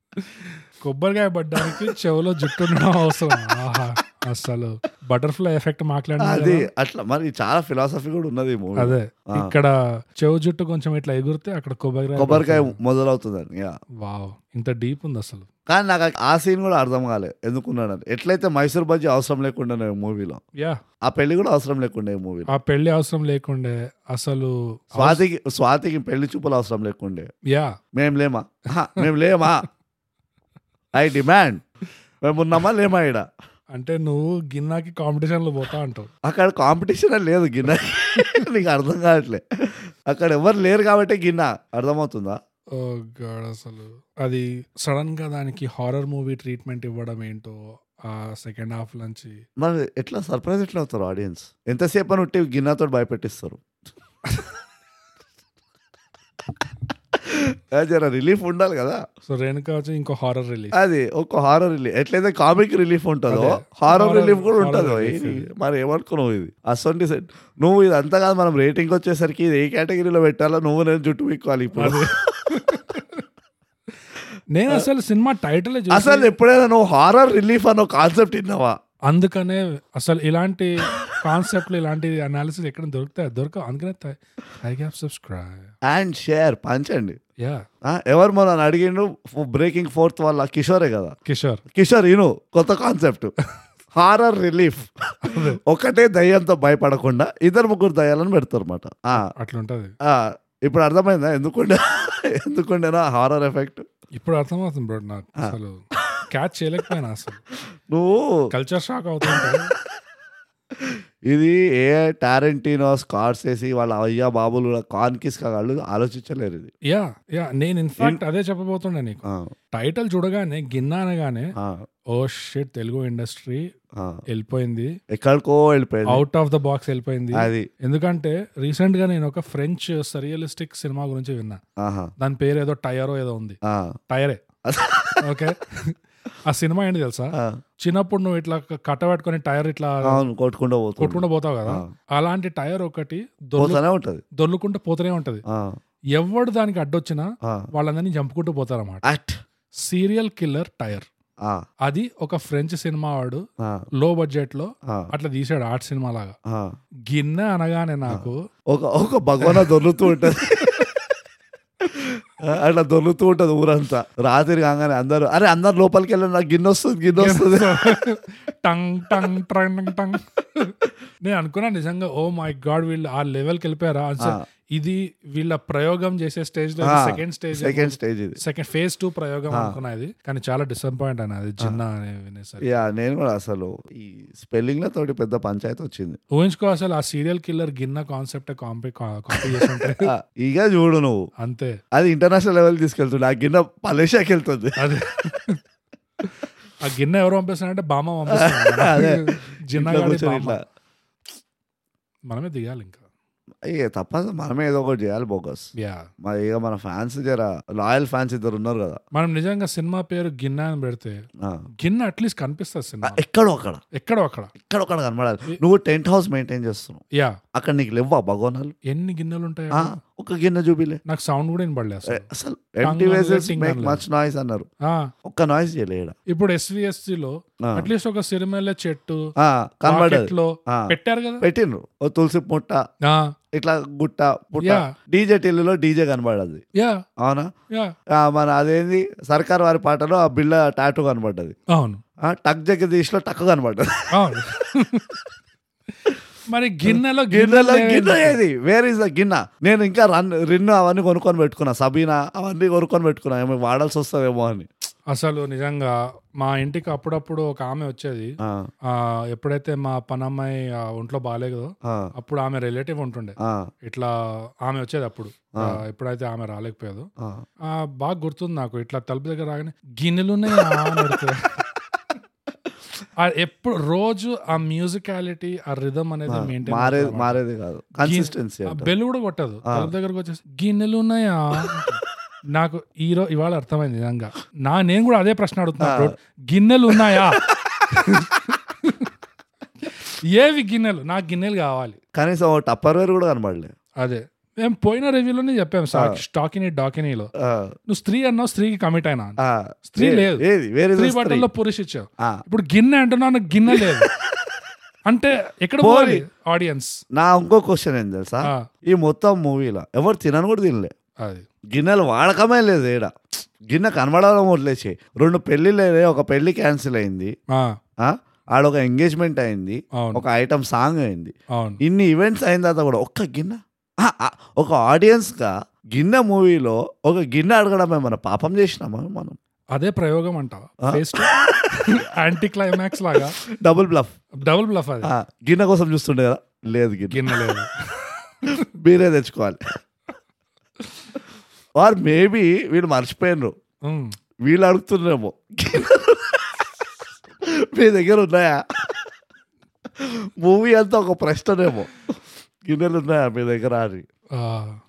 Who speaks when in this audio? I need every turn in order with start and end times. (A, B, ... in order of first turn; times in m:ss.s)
0:00.2-0:06.7 A
0:01.6-0:01.9 B
0:06.2-0:09.5 B
0:08.8-0:12.8 A
0:12.2-0:13.8 B
0:14.0-0:15.5 A
0:15.7-0:20.4 B
0:21.0-0:22.5 B
0:22.5-0:25.2 A
0:25.0-0:27.3 B
0:27.5-0:27.8 A
0:27.9-0:29.7 B
0:30.9-0:31.6 B
0:32.2-0:33.3 B
0:33.8-0:36.1 A
0:36.2-0:42.4 B
0:38.2-0:38.4 A
0:42.7-0:49.4 A
0:49.6-0:53.6 B
0:57.2-0:59.0 B
0:59.3-1:00.8 A
1:00.7-1:12.8 B
1:03.3-1:05.5 A
1:11.8-1:13.2 A
1:14.5-1:16.3 A
1:15.9-1:18.8 B
1:19.1-1:25.7 A
1:25.8-1:27.2 B
1:27.8-1:31.2 B
1:31.3-1:31.6 A
1:31.7-1:33.3 B
1:34.0-1:39.3 B
1:35.2-1:35.6 A
1:39.2-1:39.9 A
1:40.0-1:43.9 B
1:44.2-1:47.4 A
1:45.4-1:46.2 B
1:47.9-1:48.5 B
1:48.5-1:49.7 A
1:49.3-1:49.6 B
1:50.8-1:56.7 B
1:56.9-1:59.2 A
1:59.3-1:59.5 B
1:59.7-2:01.5 A
2:01.6-2:01.8 B
2:02.1-2:03.7 A
2:04.0-2:04.2 B
2:04.3-2:04.9 A
2:05.1-2:06.2 B
2:06.1-2:11.6 A
2:07.4-2:07.7 B
2:11.8-2:12.1 B
2:12.2-2:13.6 A
2:13.7-2:14.0 B
2:14.1-2:14.4 A
2:14.6-2:15.3 B
2:15.2-2:20.2 A
2:17.4-2:17.6 B
2:20.1-2:21.9 B
2:21.0-2:23.8 A
2:23.6-2:24.2 B
2:24.4-2:25.4 A
2:25.5-2:25.8 B
2:26.2-2:29.1 A
2:29.0-2:29.4 B
2:29.8-2:31.1 A
2:31.9-2:33.4 A
2:33.6-2:33.9 B
2:34.0-2:36.4 A
2:36.5-2:36.7 B
2:37.1-2:38.4 A
2:38.1-2:40.9 B
2:39.4-2:40.9 A
2:41.8-2:48.0 B
2:47.2-3:02.8 A
2:56.8-2:58.4 B
3:02.6-3:06.2 B
3:06.3-3:10.1 A
3:09.4-3:11.3 B
3:11.4-3:11.8 A
3:11.9-3:14.8 B
3:14.8-3:15.6 A
3:16.2-3:20.6 A
3:18.3-3:20.6 B
3:22.3-3:23.0 A
3:23.7-3:25.7 B
3:25.8-3:26.1 A
3:26.2-3:29.0 B
3:29.1-3:31.2 A
3:31.8-3:33.2 A
3:33.0-3:33.8 B
3:34.0-3:34.5 A
3:34.6-3:37.0 B
3:37.6-3:38.7 B
3:38.9-3:40.0 A
3:39.7-3:41.0 B
3:41.1-3:42.3 A
3:42.1-3:44.7 B
3:42.8-3:44.0 A
3:44.9-3:45.1 A
3:45.2-3:46.2 B
3:46.3-3:49.3 A
3:47.6-3:47.9 B
3:49.4-3:52.8 B
3:49.9-3:51.4 A
3:53.1-3:53.3 A
3:53.5-3:56.6 B
3:54.6-3:54.9 A
3:56.8-3:57.0 A
3:57.2-3:57.5 B
3:58.1-4:01.6 B
4:01.7-4:02.0 A
4:02.2-4:04.4 B
4:04.1-4:05.2 A
4:06.1-4:08.4 A
4:06.8-4:14.7 B
4:15.1-4:18.4 A
4:18.4-4:18.7 B
4:18.9-4:24.1 A
4:21.8-4:22.1 B
4:23.4-4:23.7 B
4:24.6-4:27.1 A
4:27.2-4:27.4 B
4:27.7-4:31.6 A
4:30.6-4:30.8 B
4:33.2-4:37.4 A
4:36.3-4:38.9 B
4:38.0-4:42.0 A
4:42.5-4:49.1 A
4:45.8-4:46.1 B
4:46.9-4:48.6 B
4:49.8-4:52.0 A
4:52.2-4:53.7 B
4:54.0-4:57.3 A
4:55.9-4:56.2 B
4:57.4-4:57.8 B
4:57.9-5:00.4 A
4:59.4-5:01.5 B
5:01.0-5:04.1 A
5:03.7-5:04.5 B
5:05.1-5:07.0 A
5:05.8-5:06.2 B
5:07.1-5:10.9 B
5:11.2-5:11.5 A
5:11.7-5:17.3 B
5:18.0-5:29.4 B
5:20.0-5:20.2 A
5:21.6-5:21.8 A
5:29.7-5:33.4 A
5:30.8-5:31.5 B
5:33.4-5:34.2 B
5:34.4-5:35.1 A
5:35.0-5:37.6 B
5:37.1-5:38.6 A
5:38.5-5:39.8 B
5:41.8-5:43.5 B
5:43.9-5:44.2 A
5:44.4-5:46.6 B
5:47.5-5:49.1 B
5:50.0-5:54.1 B
5:54.4-5:54.8 A